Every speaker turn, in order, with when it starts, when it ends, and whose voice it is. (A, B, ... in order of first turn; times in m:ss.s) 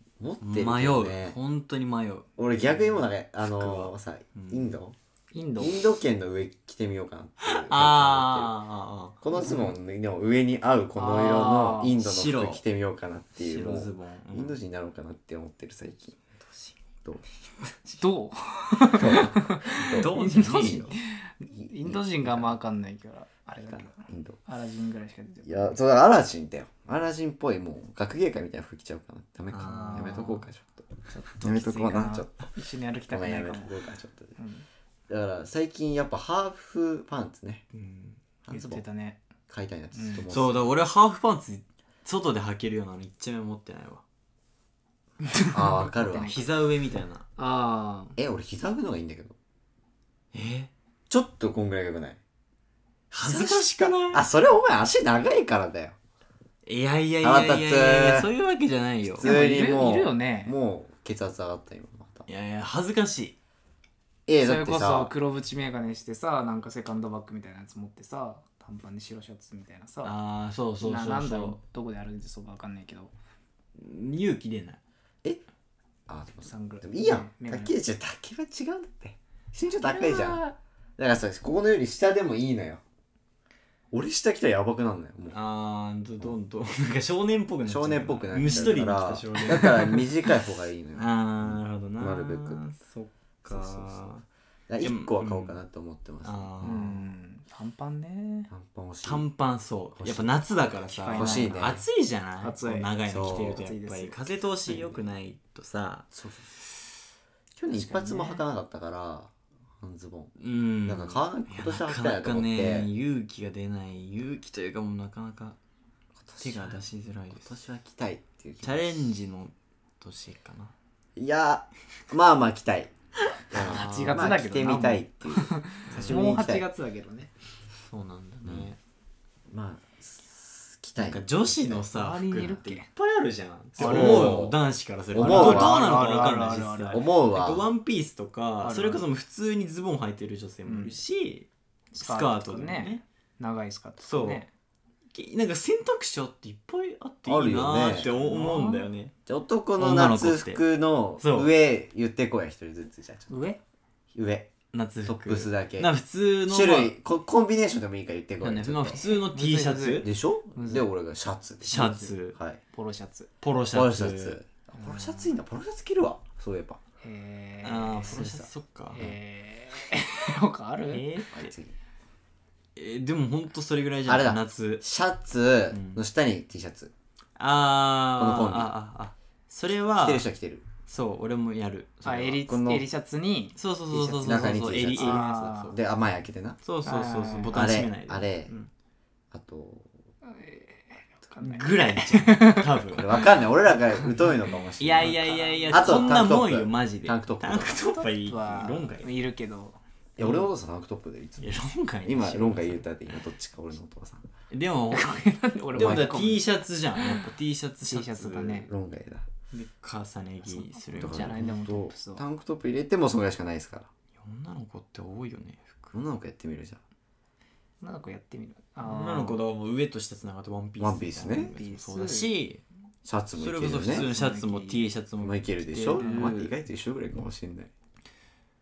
0:00.2-0:01.4 A
0:00.4-0:04.7 B
0:02.4-0:05.0 A
0:05.3-0:05.8 C
0:05.6-0:08.5 A
0:07.4-0:09.5 B
0:09.2-0:16.2 A
0:09.3-0:09.7 C
0:11.0-0:12.0 C
0:11.9-0:12.6 B
0:13.4-0:14.6 B
0:16.4-0:16.8 B
0:17.6-0:18.0 B
0:18.0-0:25.8 C
0:18.8-0:20.9 A
0:19.7-0:20.9 B
0:21.5-0:22.5 A
0:23.7-0:24.4 A
0:25.4-0:32.5 A
0:29.5-0:30.4 B
0:29.9-0:30.4 C
0:31.1-0:33.7 C
0:33.1-0:34.3 A
0:34.4-0:34.6 C
0:35.1-0:37.6 A
0:37.7-0:38.2 B
0:38.4-0:38.8 A
0:38.5-0:39.2 C
0:39.5-0:40.7 A
0:39.9-0:40.3 C
0:40.3-0:44.0 B
0:45.3-0:46.5 C
0:45.5-0:46.5 A
0:46.2-0:47.2 B
0:47.4-0:48.2 C
0:48.2-0:49.4 A
0:50.3-0:50.7 B
0:51.1-0:52.2 A
0:53.1-0:54.2 B
0:53.2-0:56.0 A
0:56.6-0:59.3 B
0:57.2-0:58.3 A
0:59.1-1:02.3 A
0:59.2-1:00.5 C
1:02.3-1:03.4 B
1:04.3-1:05.1 A
1:04.4-1:10.1 C
1:10.0-1:11.6 B
1:10.8-1:13.1 C
1:13.8-1:14.8 B
1:16.1-1:20.4 A
1:16.4-1:17.7 C
1:19.8-1:20.6 C
1:21.0-1:22.8 A
1:23.9-1:25.4 A
1:25.3-1:30.4 B
1:27.6-1:32.6 A
1:30.9-1:34.2 B
1:33.4-1:34.1 A
1:34.7-1:36.9 A
1:34.8-1:35.6 B
1:36.2-1:37.0 B
1:36.6-1:38.5 C
1:38.5-1:39.3 A
1:39.0-1:46.1 B
1:40.0-1:40.4 A
1:40.8-1:41.8 C
1:41.1-1:41.8 A
1:42.4-1:44.5 C
1:43.1-1:43.6 A
1:44.7-1:45.0 A
1:46.1-1:46.5 A
1:47.6-1:50.3 A
1:47.7-1:48.4 C
1:50.4-1:55.6 B
1:50.9-1:52.9 A
1:56.2-1:58.8 A
1:56.4-1:57.5 B
1:58.6-2:00.7 B
2:01.2-2:02.9 A
2:03.4-2:04.3 B
2:03.5-2:06.6 A
2:03.6-2:07.3 C
2:05.9-2:06.2 B
2:07.8-2:08.8 B
2:08.4-2:08.7 A
2:09.5-2:11.8 A
2:11.0-2:23.0 B
2:11.9-2:12.9 C
2:13.8-2:14.6 A
2:13.8-2:14.4 C
2:15.1-2:15.8 A
2:15.1-2:17.1 C
2:16.9-2:17.7 A
2:18.6-2:19.0 C
2:20.6-2:21.0 C
2:21.9-2:24.5 C
2:24.0-2:24.4 B
2:25.1-2:29.1 B
2:27.2-2:28.0 A
2:27.9-2:28.9 C
2:29.2-2:33.3 A
2:29.8-2:30.6 B
2:31.2-2:31.5 B
2:33.3-2:33.6 C
2:34.1-2:34.5 A
2:34.7-2:36.9 B
2:35.0-2:35.9 A
2:36.5-2:39.0 A
2:38.4-2:40.1 B
2:39.1-2:40.8 C
2:40.0-2:42.6 A
2:41.6-2:42.4 B
2:41.7-2:42.1 C
2:42.7-2:43.3 C
2:43.4-2:44.4 B
2:43.7-2:46.8 A
2:44.8-2:45.2 C
2:47.0-2:48.3 C
2:47.6-2:49.0 B
2:48.1-2:49.2 A
2:48.9-2:51.2 C
2:50.9-2:51.5 B
2:51.3-2:51.7 A
2:52.8-2:54.8 B
2:54.0-2:56.9 A
2:55.7-2:56.0 B
2:57.4-3:00.2 B
2:58.2-2:58.7 A
3:00.0-3:00.6 A
3:00.9-3:02.4 B
3:02.0-3:05.7 C
3:02.4-3:02.8 A
3:03.6-3:05.7 B
3:04.2-3:06.6 A
3:06.6-3:08.7 B
3:06.8-3:07.6 C
3:07.5-3:08.5 A
3:09.3-3:09.9 A
3:10.2-3:13.3 C
3:11.4-3:13.4 B
3:12.9-3:17.8 A
3:14.8-3:19.1 B
3:14.9-3:16.3 C
3:18.0-3:19.8 C
3:20.2-3:24.2 A
3:20.2-3:20.5 B
3:21.4-3:22.8 B
3:24.5-3:25.2 B
3:24.9-3:26.4 C
3:25.7-3:28.7 B
3:25.7-3:26.2 A
3:27.0-3:27.3 C
3:27.9-3:28.7 C
3:28.7-3:29.2 A
3:29.5-3:31.4 B
3:30.8-3:32.2 C
3:31.0-3:33.9 A
3:34.2-3:35.9 B
3:35.9-3:36.8 A
3:37.8-3:39.4 C
3:38.8-3:42.6 B
3:40.8-3:41.5 A
3:41.5-3:42.3 C
3:43.0-3:44.0 A
3:43.4-3:46.5 B
3:43.9-3:44.9 C
3:45.2-3:47.7 A
3:45.7-3:46.4 C